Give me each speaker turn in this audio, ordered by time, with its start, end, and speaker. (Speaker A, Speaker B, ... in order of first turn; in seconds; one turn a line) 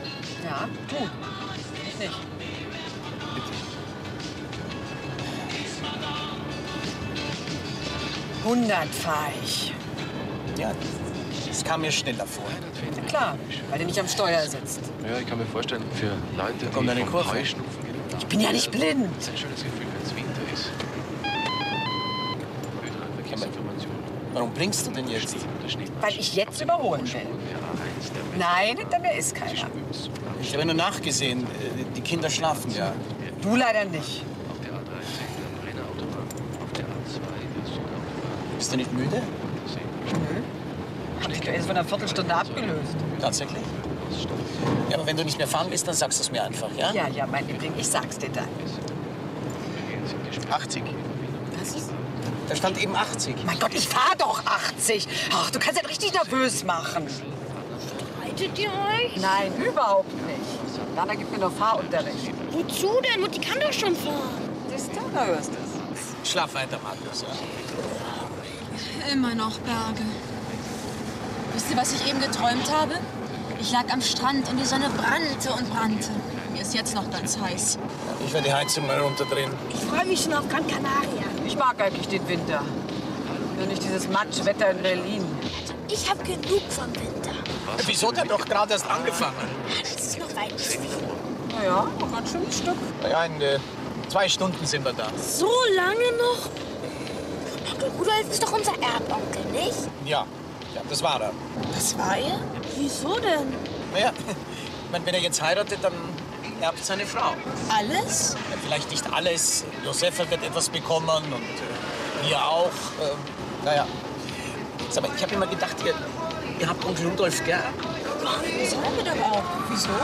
Speaker A: 0.4-1.2
Speaker A: 1.9-2.2
Speaker A: 8.4-9.8
Speaker B: 11.5-12.6
Speaker C: 12.5-14.3
Speaker A: 12.9-14.9
Speaker C: 15.0-20.7
Speaker B: 16.6-17.5
Speaker A: 18.2-19.2
Speaker C: 22.8-24.1
Speaker B: 23.3-23.6
Speaker B: 24.3-25.5
Speaker C: 25.1-30.3
Speaker A: 26.0-27.4
Speaker A: 28.3-29.8
Speaker B: 30.4-33.0
Speaker A: 33.4-34.3
Speaker C: 34.5-38.5
Speaker B: 38.5-39.3
Speaker C: 39.4-40.1
Speaker A: 40.1-40.5
Speaker A: 41.2-43.1
Speaker C: 41.2-44.5
Speaker B: 43.2-43.7
Speaker B: 44.7-47.0
Speaker A: 46.8-48.5
Speaker C: 50.0-50.4
Speaker B: 50.5-50.9
Speaker A: 51.5-51.9
Speaker B: 52.5-53.6
Speaker A: 53.4-57.3
Speaker D: 58.0-59.3
Speaker A: 59.1-62.3
Speaker D: 62.5-64.5
Speaker A: 64.7-66.2
Speaker B: 66.2-68.2
Speaker E: 68.8-70.2
Speaker E: 71.5-77.8
Speaker B: 78.0-79.6
Speaker D: 79.7-81.4
Speaker A: 81.4-82.8
Speaker A: 83.5-85.5
Speaker D: 85.5-87.5
Speaker C: 87.7-91.1
Speaker B: 87.8-89.6
Speaker D: 89.7-91.0
Speaker A: 91.5-92.8
Speaker B: 93.0-95.2
Speaker D: 95.2-96.5
Speaker D: 97.6-99.9
Speaker B: 100.0-101.4
Speaker D: 101.7-103.6
Speaker B: 103.9-107.6
Speaker D: 107.7-108.4
Speaker B: 108.4-113.9
Speaker B: 114.8-117.8
Speaker E: 118.7-119.3